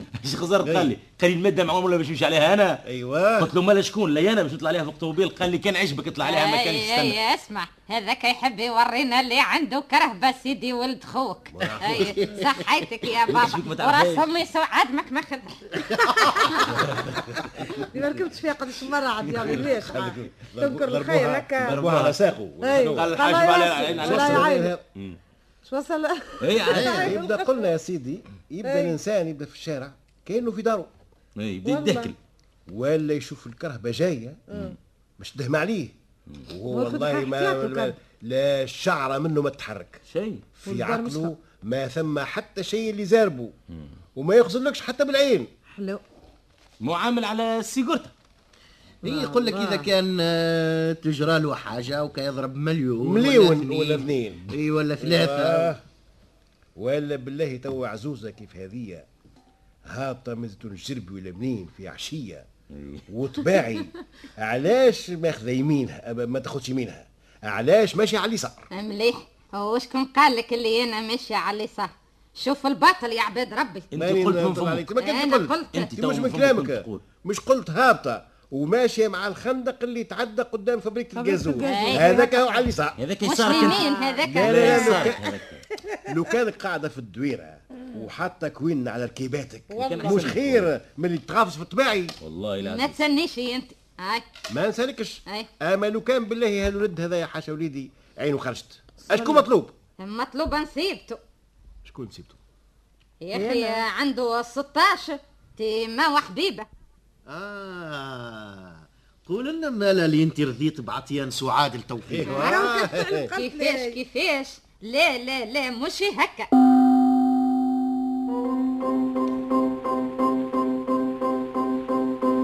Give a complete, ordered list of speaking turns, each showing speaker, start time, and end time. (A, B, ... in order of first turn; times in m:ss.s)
0:00.2-0:02.8 A
0:00.6-0:00.9 B
0:02.8-0:03.5 B
0:03.4-0:07.2 A
0:06.2-0:16.6 C
0:11.5-0:12.1 B
0:11.8-0:12.6 D
0:13.3-0:14.3 A
0:15.9-0:16.5 D
0:16.9-0:17.8 B
0:17.8-0:21.8 E
0:19.2-0:19.7 A
0:19.4-0:23.2 B
0:21.6-0:22.2 A
0:22.6-0:24.8 E
0:22.9-0:25.2 A
0:23.9-0:24.8 B
0:25.6-0:27.7 E
0:26.4-0:27.1 A
0:26.6-0:27.2 D
0:26.9-0:30.9 B
0:28.6-0:29.0 E
0:31.4-0:32.2 A
0:31.6-0:32.1 E
0:32.7-0:34.4 B
0:34.5-0:34.8 E
0:35.2-0:35.9 B
0:36.5-0:40.0 B
0:36.7-0:38.0 E
0:40.1-0:40.4 A
0:40.6-0:43.5 B
0:40.6-0:41.4 E
0:44.2-0:45.5 B
0:45.7-0:46.0 E
0:46.8-0:48.1 A
0:49.0-0:55.7 D
0:49.0-0:49.9 E
0:53.0-0:55.8 B
0:56.8-0:59.1 B
0:59.9-1:02.4 B
1:02.7-1:03.0 A
1:03.1-1:08.6 B
1:08.7-1:13.9 C
1:13.9-1:14.9 A
1:14.0-1:23.0 B
1:15.0-1:15.9 C
1:15.7-1:17.0 A
1:21.1-1:22.7 E
1:21.6-1:22.0 C
1:23.0-1:25.6 A
1:23.2-1:25.1 C
1:23.5-1:25.2 E
1:24.3-1:25.2 B
1:25.8-1:26.1 E
1:26.1-1:32.2 B
1:29.7-1:30.3 E
1:29.8-1:30.7 A
1:32.2-1:33.0 A
1:32.6-1:34.2 C
1:34.5-1:39.7 B
1:39.1-1:39.5 E
1:40.0-1:41.2 C
1:41.9-1:42.4 B
1:43.2-1:46.7 C
1:43.3-1:43.8 E
1:47.3-1:52.4 D
1:52.1-1:53.3 B
1:52.2-1:54.0 E
1:52.3-1:52.6 C
1:53.3-1:56.5 C